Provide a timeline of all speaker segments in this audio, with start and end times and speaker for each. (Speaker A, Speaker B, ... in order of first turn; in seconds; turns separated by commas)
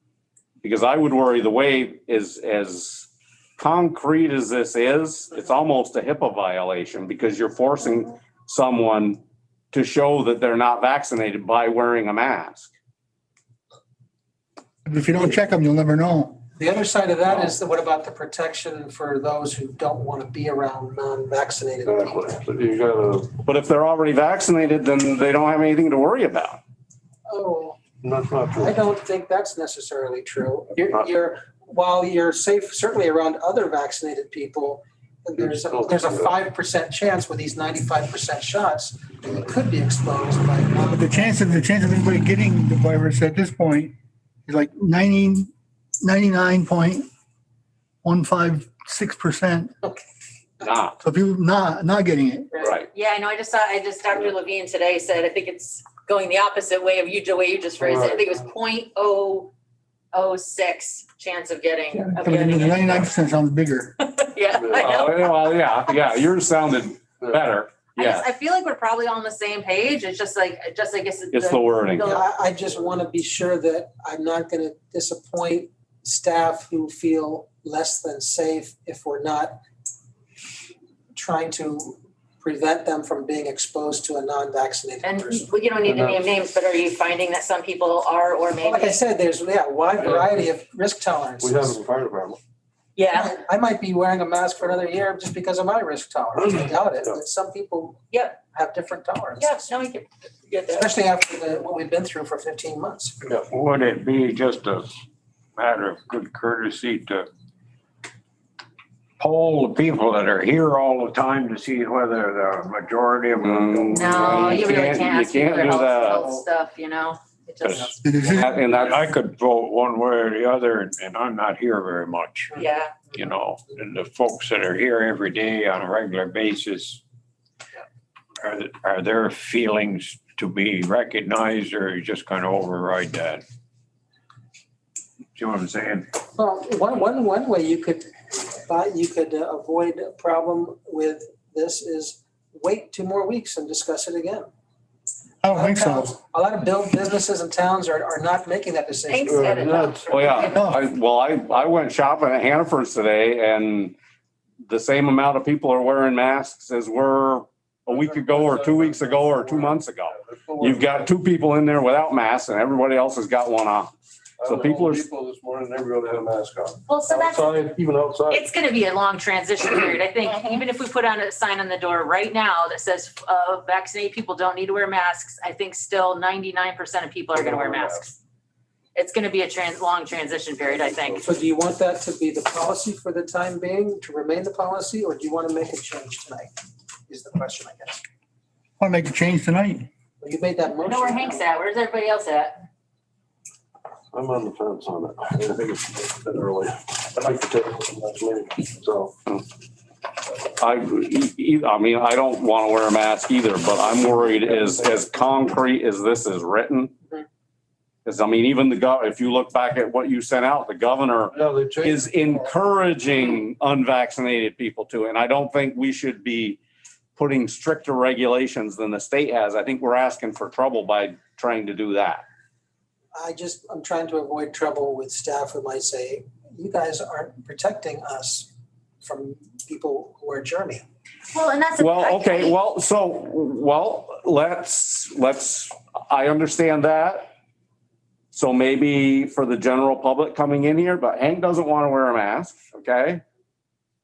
Speaker A: 0.6-9.2, Speaker A: 9.7-12.7, Speaker B: 14.8-16.4, Speaker C: 16.6-22.2, Speaker D: 21.9-23.3, Speaker A: 23.4-26.6, Speaker C: 27.3-27.9, Speaker D: 28.0-28.8, Speaker C: 28.6-41.3, Speaker D: 35.4-36.3, Speaker B: 40.8-43.9, Speaker B: 44.5-45.5, Speaker B: 46.0-47.1, Speaker B: 48.0-49.7, Speaker A: 50.6-51.0, Speaker B: 51.0-52.5, Speaker E: 52.5-59.5, Speaker A: 52.6-52.9, Speaker D: 57.8-58.3, Speaker E: 60.1-63.1, Speaker B: 61.9-63.9, Speaker E: 64.0-66.0, Speaker D: 64.5-65.1, Speaker A: 64.8-68.3, Speaker E: 67.9-72.3, Speaker A: 71.3-72.1, Speaker C: 72.0-79.6, Speaker C: 81.1-85.5, Speaker E: 85.0-89.0, Speaker D: 85.8-86.2, Speaker C: 88.6-91.8, Speaker D: 90.0-90.4, Speaker D: 91.4-92.4, Speaker E: 93.0-93.3, Speaker C: 93.1-99.5, Speaker D: 96.3-97.1, Speaker E: 98.1-98.4, Speaker E: 99.4-100.9, Speaker C: 100.7-103.2, Speaker F: 103.5-104.9, Speaker F: 105.6-107.3, Speaker F: 109.2-114.2, Speaker A: 113.4-116.3, Speaker E: 113.9-118.0, Speaker D: 114.0-114.7, Speaker F: 117.6-127.0, Speaker B: 118.0-118.5, Speaker A: 118.3-119.1, Speaker E: 122.5-122.9, Speaker F: 128.4-133.4, Speaker F: 135.3-136.1, Speaker C: 136.3-144.5, Speaker B: 145.4-146.1, Speaker C: 145.5-149.7, Speaker E: 149.1-150.7, Speaker D: 149.2-150.5, Speaker A: 150.1-153.9, Speaker B: 150.5-150.8, Speaker A: 154.6-163.9, Speaker D: 157.9-161.1, Speaker D: 164.4-168.4, Speaker A: 164.4-165.1, Speaker E: 166.9-167.7, Speaker E: 168.3-178.1, Speaker D: 177.3-178.1, Speaker E: 178.9-181.3, Speaker D: 180.8-181.2, Speaker C: 181.2-186.5, Speaker C: 187.1-188.0, Speaker B: 188.8-189.9, Speaker C: 190.2-191.4, Speaker E: 190.8-192.6, Speaker D: 194.1-199.1, Speaker A: 200.4-206.9, Speaker D: 204.3-204.8, Speaker A: 208.0-216.6, Speaker D: 211.3-212.0, Speaker A: 217.2-222.2, Speaker C: 223.1-228.5, Speaker C: 229.0-230.8, Speaker E: 231.3-232.6, Speaker A: 231.8-237.3, Speaker A: 238.3-243.2